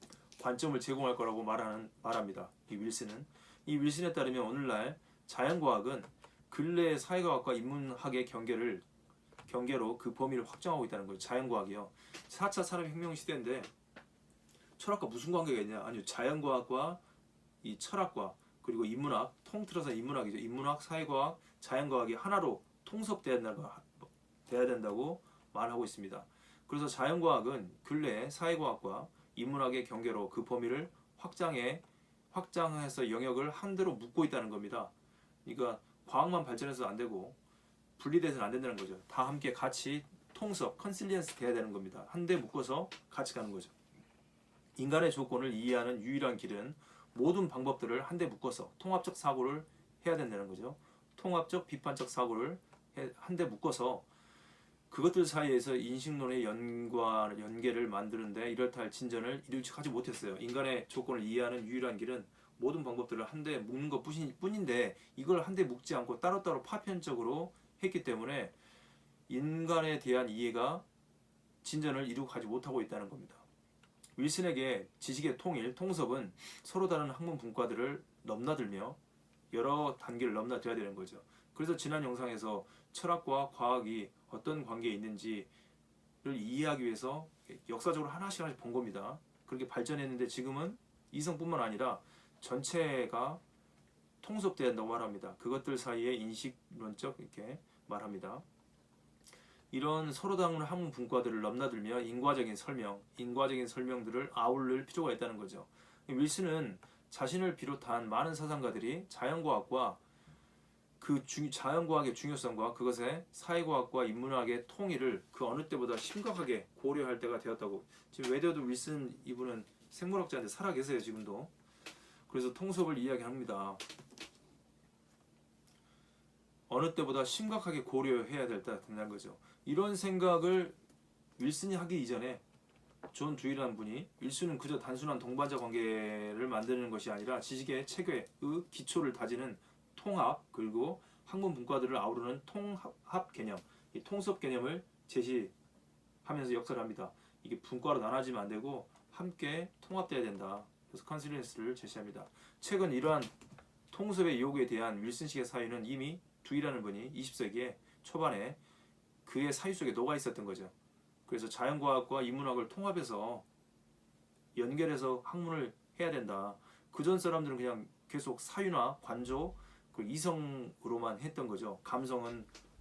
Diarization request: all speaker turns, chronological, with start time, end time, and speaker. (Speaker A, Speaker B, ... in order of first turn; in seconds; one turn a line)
Speaker A: 0.4-8.8
Speaker A: 9.5-13.7
Speaker A: 14.8-17.0
Speaker A: 17.6-34.9
Speaker A: 35.4-37.4
Speaker A: 38.0-43.7
Speaker A: 44.8-54.0
Speaker A: 54.9-68.5
Speaker A: 69.3-70.8
Speaker A: 71.6-73.4
Speaker A: 74.2-79.0
Speaker A: 79.5-85.5
Speaker A: 86.2-93.4
Speaker A: 94.2-98.4
Speaker A: 99.7-110.0
Speaker A: 111.0-121.5
Speaker A: 122.3-123.8
Speaker A: 126.7-130.8
Speaker A: 131.4-132.4
Speaker A: 133.1-145.5
Speaker A: 146.2-153.3
Speaker A: 153.9-158.6
Speaker A: 159.2-160.7
Speaker A: 161.3-163.4
Speaker A: 164.5-172.5